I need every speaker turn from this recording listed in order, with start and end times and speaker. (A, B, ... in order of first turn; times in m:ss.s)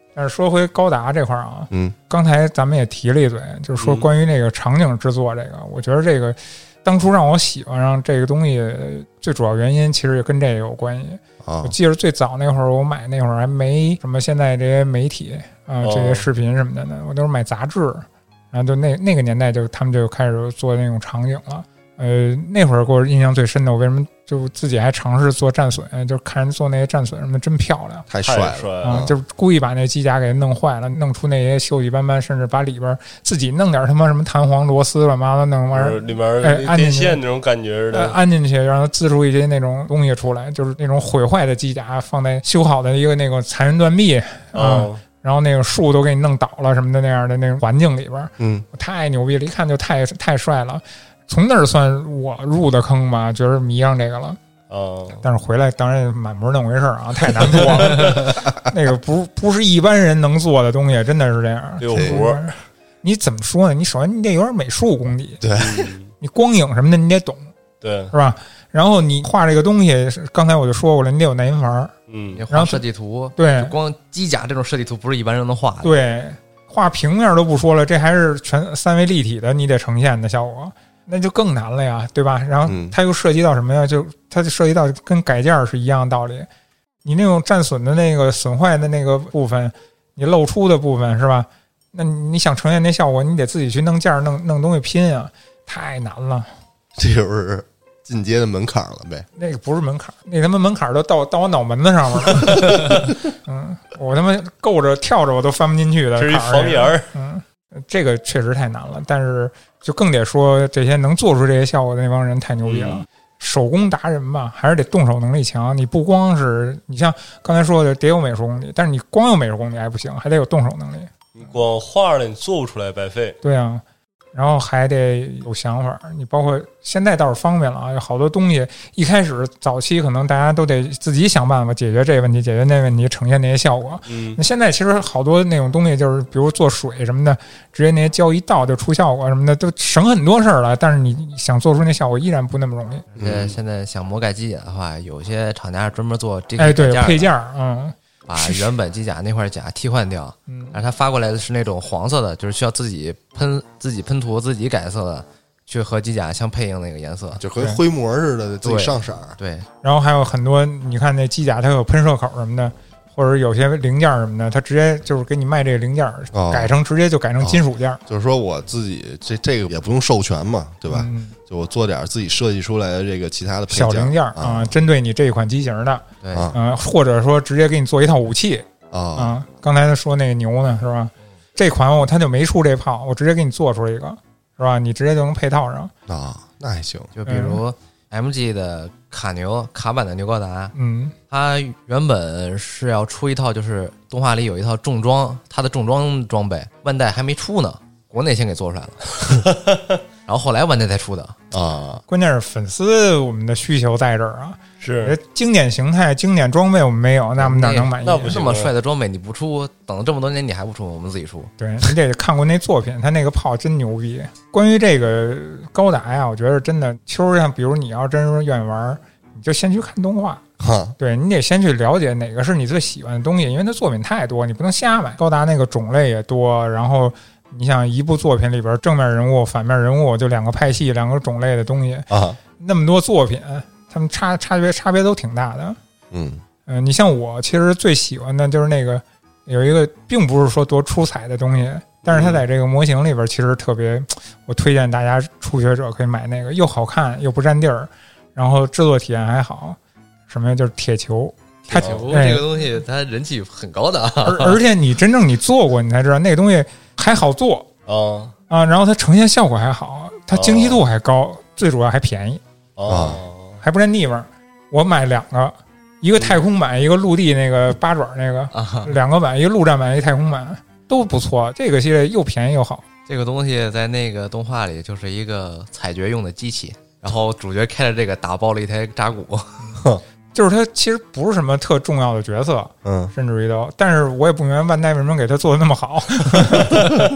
0:00.1-0:28.1 A
0:01.7-0:02.0 B
0:03.8-0:04.0 C
0:11.4-0:11.7 B
0:15.8-0:16.3 C
0:28.1-0:29.1 B
0:28.2-0:29.1 C
0:28.8-0:37.2 A
0:35.7-0:38.2 C
0:37.9-0:54.4 A
0:44.5-0:45.0 C
0:48.4-0:48.6 B
0:54.7-0:55.2 C
0:55.2-1:05.4 A
1:01.8-1:02.4 C
1:01.9-1:02.2 B
1:05.4-1:05.9 B
1:05.6-1:06.1 C
1:06.2-1:07.5 A
1:07.8-1:08.1 C
1:08.1-1:11.9 A
1:12.1-1:12.4 C
1:12.3-1:16.0 D
1:12.5-1:12.8 A
1:13.4-1:13.7 A
1:15.8-1:26.5 A
1:22.6-1:23.0 B
1:27.0-1:36.5 A
1:37.0-1:39.3 B
1:39.4-2:01.1 A
1:42.5-1:43.0 B
1:46.2-1:47.1 C
1:52.6-1:53.0 C
2:01.3-2:03.4 C
2:03.4-2:03.8 A
2:04.3-2:23.0 A
2:14.1-2:14.4 C
2:23.1-2:27.3 D
2:23.2-2:23.5 B
2:26.6-2:28.7 A
2:28.3-2:37.4 D
2:30.5-2:30.8 A
2:37.4-2:39.4 B
2:38.6-2:39.7 D
2:39.8-2:48.0 A
2:46.3-2:46.7 B
2:47.4-2:54.8 B
2:50.9-2:51.4 A
2:53.7-3:05.9 A
2:56.2-2:56.5 D
2:56.3-2:56.6 B
2:58.9-2:59.3 B
3:06.1-3:07.1 B
3:07.1-3:10.7 D
3:07.2-3:07.6 A
3:10.7-3:11.1 A
3:11.3-3:19.3 D
3:19.4-3:20.0 C
3:20.3-3:21.4 D
3:21.5-3:22.0 B
3:22.1-3:28.4 A
3:24.8-3:25.2 C
3:27.4-3:31.5 D
3:28.0-3:28.7 C
3:31.6-3:40.4 A
3:40.6-3:41.0 B
3:41.0-3:55.8 A
3:52.1-3:52.4 B
3:56.1-3:56.4 B
3:56.6-4:12.5 A
4:02.1-4:02.4 B
4:11.7-4:14.6 D
4:11.7-4:12.2 C
4:14.2-4:17.7 A
4:17.8-4:18.3 C
4:18.5-4:22.4 A
4:20.3-4:20.8 C
4:22.8-4:23.6 C
4:22.8-4:23.2 B
4:23.6-4:32.8 A
4:26.2-4:26.4 C
4:28.5-4:29.0 D
4:33.1-4:39.6 D
4:40.3-4:47.0 A
4:42.8-4:43.1 B